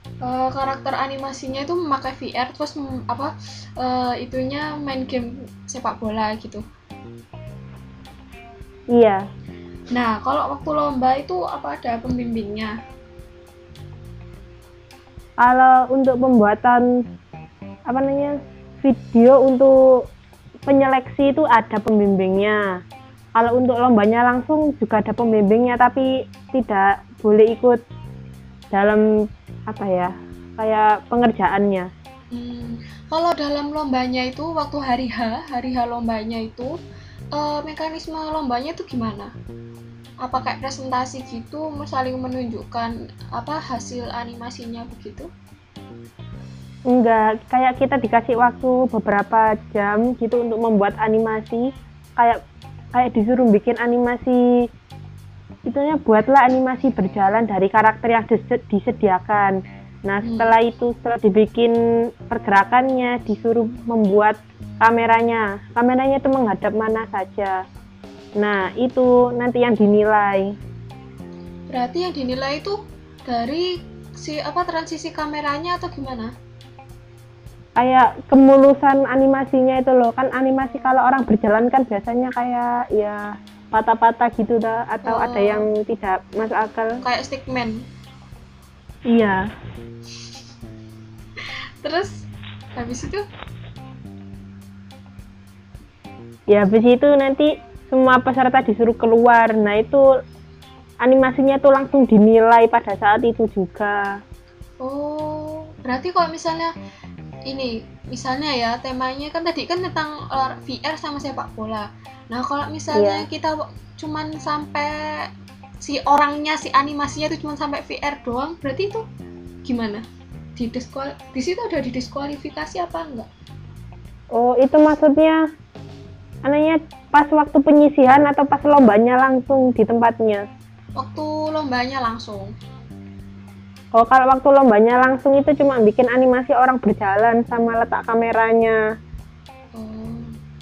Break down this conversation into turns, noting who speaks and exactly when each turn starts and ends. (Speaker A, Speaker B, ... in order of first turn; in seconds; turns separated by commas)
Speaker A: 0.2-6.6, Speaker B: 8.9-9.2, Speaker A: 9.9-12.8, Speaker B: 15.4-16.9, Speaker B: 17.9-19.7, Speaker B: 20.7-22.6, Speaker B: 23.4-27.8, Speaker B: 28.7-29.0, Speaker B: 29.7-31.9, Speaker A: 32.3-36.7, Speaker A: 37.3-39.3, Speaker A: 40.2-45.3, Speaker B: 46.9-51.7, Speaker B: 52.9-54.5, Speaker B: 55.7-61.7, Speaker A: 60.2-60.5, Speaker B: 62.3-67.6, Speaker B: 68.4-70.5, Speaker A: 71.7-76.3, Speaker B: 77.8-83.2, Speaker B: 83.7-87.0, Speaker A: 85.0-85.7, Speaker A: 87.0-87.8, Speaker B: 89.1-89.5, Speaker A: 91.8-92.2, Speaker A: 92.8-93.2, Speaker B: 96.5-100.0, Speaker B: 101.0-104.0, Speaker A: 104.8-106.7, Speaker A: 107.5-115.3, Speaker B: 112.9-113.2, Speaker A: 115.8-119.0, Speaker A: 119.6-120.0, Speaker A: 120.6-123.3, Speaker B: 124.3-125.4, Speaker B: 126.4-130.4, Speaker A: 131.0-132.5, Speaker B: 133.9-138.8, Speaker A: 139.7-140.3